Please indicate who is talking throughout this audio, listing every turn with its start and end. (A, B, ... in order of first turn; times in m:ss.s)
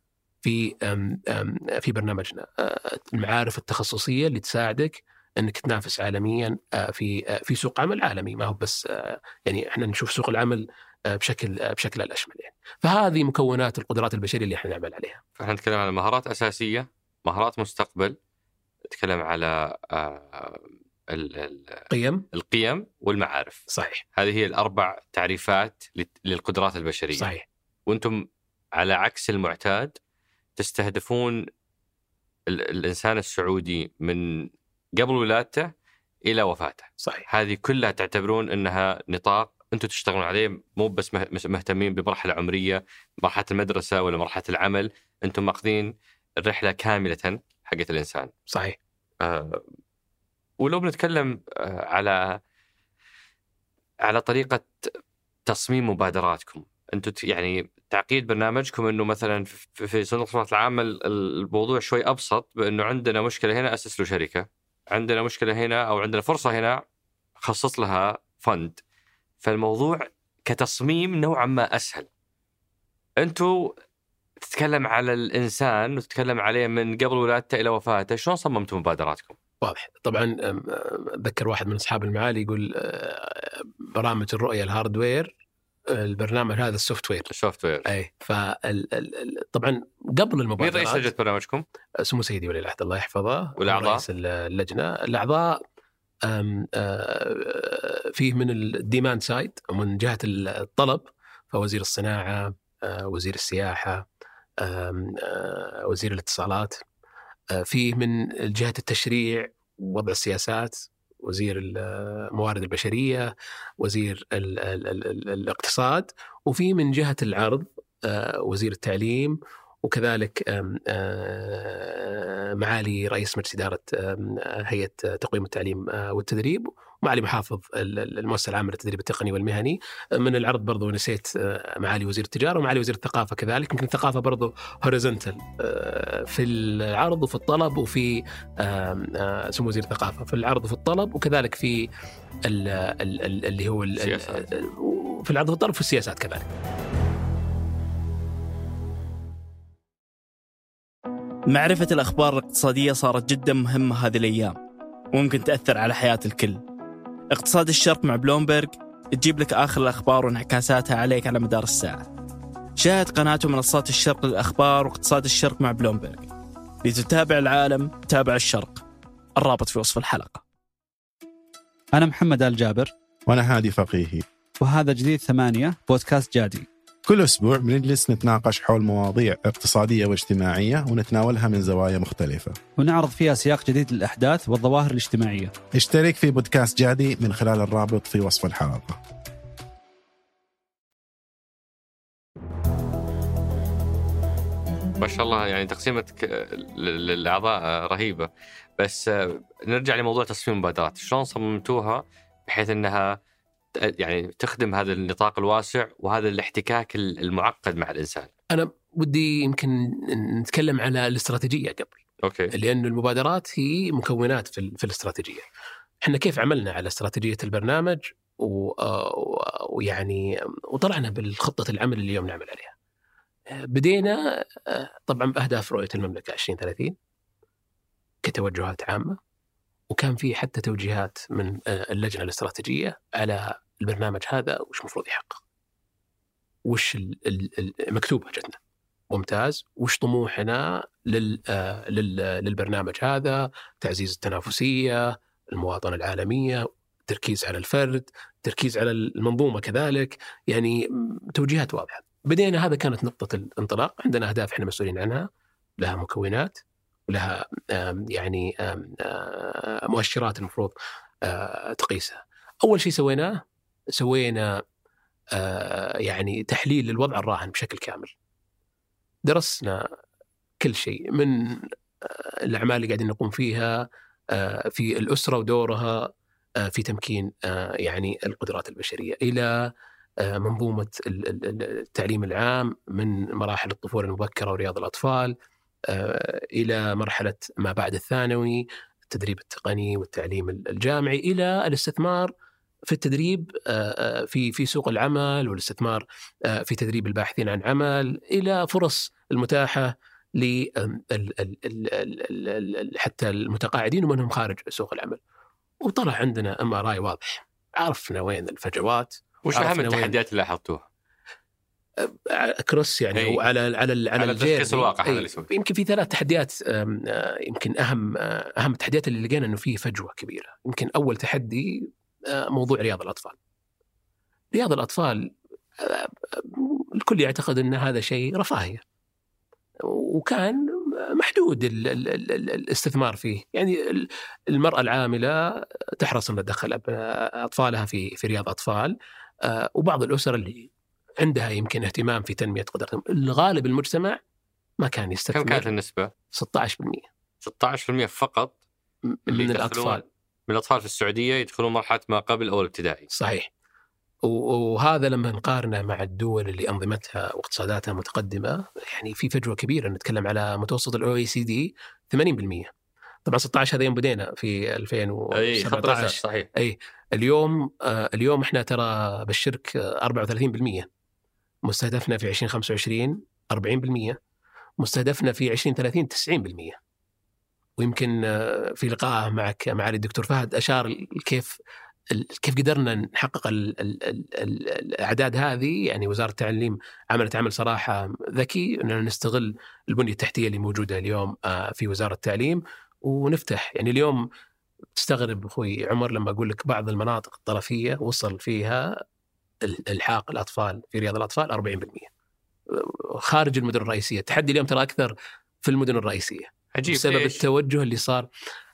0:00.4-0:15.2 A
0:15.4-0:18.2 B
0:18.9-0:23.6 B
0:21.9-0:22.2 A
0:23.7-0:24.0 A
0:24.2-0:27.3 B
0:27.1-0:27.4 A
0:27.9-0:29.9 B
0:30.6-0:31.4 B
0:32.5-0:35.7 B
0:36.2-0:48.3 B
0:37.0-0:37.2 A
0:48.5-0:48.8 A
0:49.2-0:49.6 B
0:50.6-0:52.4 B
0:54.0-0:54.9 B
0:55.5-1:06.8 B
1:07.4-1:08.8 B
1:09.4-1:12.1 B
1:13.2-1:13.7 B
1:14.4-1:19.4 B
1:19.6-1:25.3 A
1:25.9-1:27.3 A
1:27.3-1:27.9 B
1:27.8-1:31.1 A
1:30.6-1:31.6 B
1:32.0-1:35.6 A
1:33.6-1:34.0 B
1:36.2-1:44.0 A
1:44.6-1:46.8 A
1:47.5-2:21.9 A
2:22.5-2:26.5 A
2:24.0-2:24.4 B
2:31.5-2:34.6 C
2:35.1-2:36.6 C
2:37.3-2:42.0 C
2:42.8-2:46.3 C
2:46.8-2:48.8 C
2:49.4-2:50.4 C
2:51.9-2:52.9 D
2:53.3-2:54.2 E
2:54.6-2:56.7 D
2:57.1-3:02.6 E
3:02.8-3:05.5 D
3:05.7-3:09.0 E
3:15.0-3:23.2 B
3:23.8-3:28.3 B
3:28.5-3:32.0 A
3:32.2-3:32.5 B
3:32.5-3:35.4 A
3:36.0-3:42.7 A
3:43.5-3:47.0 A
3:48.2-3:49.2 A
3:49.9-3:55.4 A
3:56.6-3:58.6 A
3:59.1-4:15.3 A
4:15.8-4:23.4 A
4:23.9-4:24.4 A
4:25.4-4:28.1 A
4:29.2-4:29.8 A
4:30.6-4:36.1 A
4:36.6-4:39.5 A
4:40.2-4:45.4 A
4:45.9-4:52.3 A
4:52.9-5:05.2 A
5:05.8-5:10.2 A
5:09.4-5:10.8 B
5:12.0-5:23.4 A
5:13.1-5:13.4 B
5:14.2-5:15.5 B
5:24.5-5:28.8 A
5:29.8-5:30.6 A
5:31.1-5:35.4 A
5:36.0-5:44.2 A
5:44.8-5:45.7 A
5:45.3-5:46.1 B
5:46.3-5:47.1 A
5:47.4-5:48.6 B
5:49.1-5:50.0 A
5:49.3-5:53.1 B
5:53.1-5:53.5 A
5:54.2-6:02.7 A
6:03.2-6:10.9 A
6:05.3-6:06.5 B
6:11.6-6:14.2 A
6:14.8-6:16.8 A
6:17.8-6:21.6 A
6:22.1-6:34.2 A
6:35.0-6:38.9 A
6:39.6-6:42.1 A
6:42.7-6:48.3 A
6:46.7-6:47.4 B